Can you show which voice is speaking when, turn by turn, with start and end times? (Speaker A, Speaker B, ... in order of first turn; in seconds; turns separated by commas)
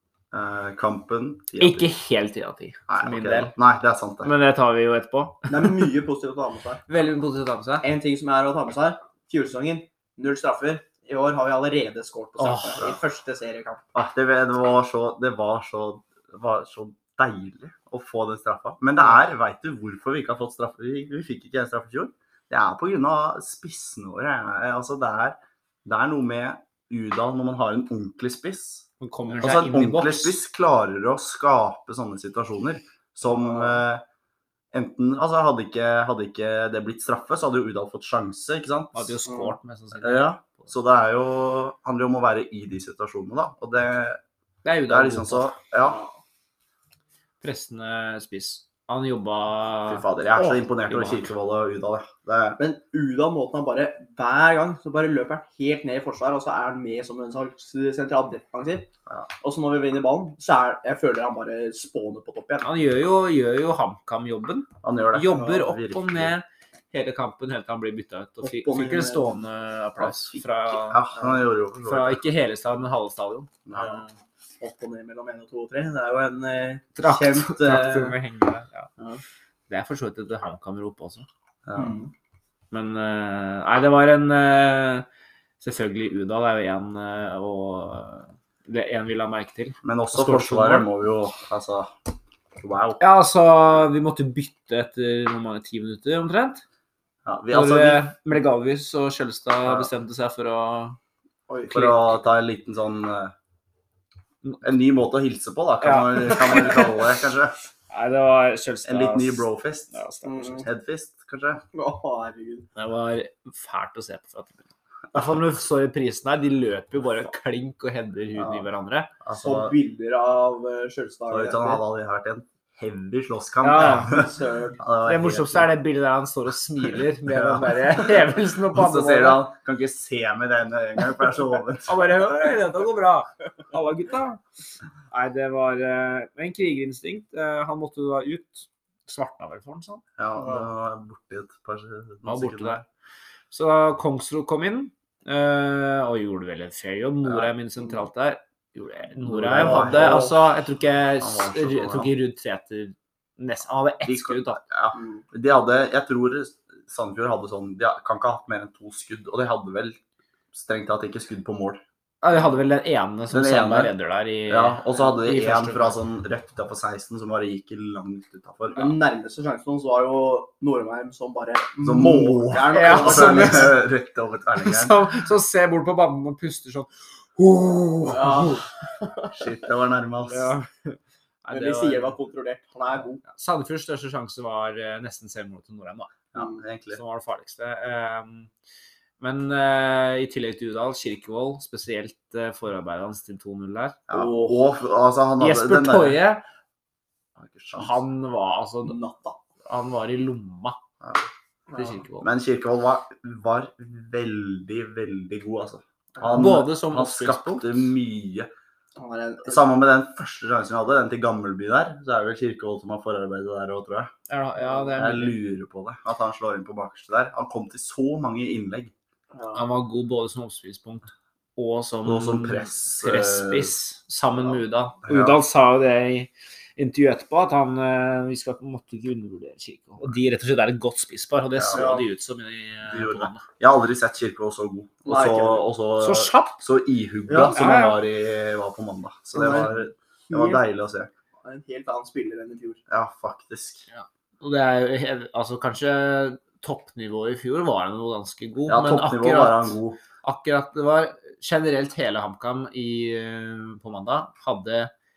Speaker A: 0.3-1.9, Speaker B: 1.6-3.5, Speaker A: 2.9-4.3, Speaker B: 4.2-5.8, Speaker C: 5.5-6.8, Speaker B: 6.9-7.9, Speaker C: 7.8-13.8, Speaker B: 12.4-12.9, Speaker A: 13.9-28.9, Speaker B: 29.0-30.4, Speaker A: 29.4-34.0, Speaker C: 33.2-33.8, Speaker A: 34.7-39.2, Speaker B: 38.9-40.7, Speaker C: 39.2-39.5, Speaker A: 40.0-44.2, Speaker B: 44.6-45.5, Speaker A: 44.9-46.0, Speaker C: 45.8-46.1, Speaker B: 47.4-51.3, Speaker A: 49.9-52.6, Speaker C: 52.6-62.8, Speaker B: 62.6-71.0, Speaker A: 64.8-66.3, Speaker C: 68.4-69.4, Speaker A: 70.9-72.2, Speaker B: 71.8-73.9, Speaker A: 73.7-73.9, Speaker C: 73.8-74.0, Speaker C: 74.6-78.2, Speaker B: 76.9-78.9, Speaker B: 79.7-81.3, Speaker A: 81.7-82.0, Speaker C: 81.8-82.1, Speaker B: 82.7-85.1, Speaker B: 85.6-90.9, Speaker A: 89.8-91.9, Speaker A: 92.5-93.0, Speaker B: 93.0-96.6, Speaker A: 97.2-98.0, Speaker B: 97.5-101.0, Speaker C: 101.5-101.8, Speaker A: 101.7-103.3, Speaker B: 101.7-102.1, Speaker A: 104.6-107.5, Speaker B: 105.8-107.0, Speaker B: 107.9-110.7, Speaker A: 108.8-110.0, Speaker C: 110.2-110.7, Speaker A: 110.6-111.6, Speaker C: 111.7-112.7, Speaker B: 112.7-119.1, Speaker A: 118.4-118.7, Speaker A: 119.2-119.7, Speaker C: 119.4-121.8, Speaker A: 121.3-125.7, Speaker B: 123.6-124.1, Speaker C: 124.0-124.8, Speaker B: 125.0-129.4, Speaker A: 127.3-132.1, Speaker B: 131.8-134.4, Speaker B: 135.1-140.0, Speaker A: 140.2-142.8, Speaker B: 142.2-142.8, Speaker B: 143.5-154.6, Speaker A: 149.2-150.3, Speaker C: 149.9-150.2, Speaker A: 151.2-152.1, Speaker A: 154.0-160.0, Speaker C: 154.9-155.2, Speaker A: 160.5-161.8, Speaker B: 162.2-166.0, Speaker A: 163.3-163.9, Speaker A: 164.5-168.9, Speaker C: 168.7-173.8, Speaker A: 171.8-175.0, Speaker B: 172.7-173.8, Speaker B: 174.6-178.7, Speaker C: 178.0-179.4, Speaker A: 179.3-180.5, Speaker B: 180.3-182.1, Speaker C: 181.5-183.2, Speaker B: 183.2-186.1, Speaker A: 186.3-187.0, Speaker B: 186.9-188.5, Speaker B: 189.2-194.0, Speaker A: 194.1-196.2, Speaker C: 194.1-194.7, Speaker B: 195.4-196.4, Speaker A: 197.4-198.0, Speaker B: 197.7-199.0, Speaker C: 198.8-199.4, Speaker B: 199.6-200.8, Speaker A: 201.0-201.3, Speaker C: 201.7-202.0, Speaker B: 201.7-202.3, Speaker A: 202.2-208.5, Speaker B: 206.3-207.9, Speaker C: 209.0-209.6, Speaker A: 209.4-214.1, Speaker B: 214.3-215.4, Speaker A: 214.9-218.9, Speaker C: 219.3-219.6, Speaker B: 219.5-233.5, Speaker A: 222.0-223.7, Speaker A: 225.1-225.4, Speaker A: 231.6-231.9, Speaker C: 231.7-232.0, Speaker A: 232.8-241.1, Speaker C: 235.1-235.7, Speaker B: 236.0-236.6, Speaker C: 237.3-237.6, Speaker B: 237.3-238.0, Speaker C: 239.3-240.6, Speaker C: 241.4-242.8, Speaker A: 242.9-243.9, Speaker B: 243.9-254.9, Speaker A: 248.7-250.0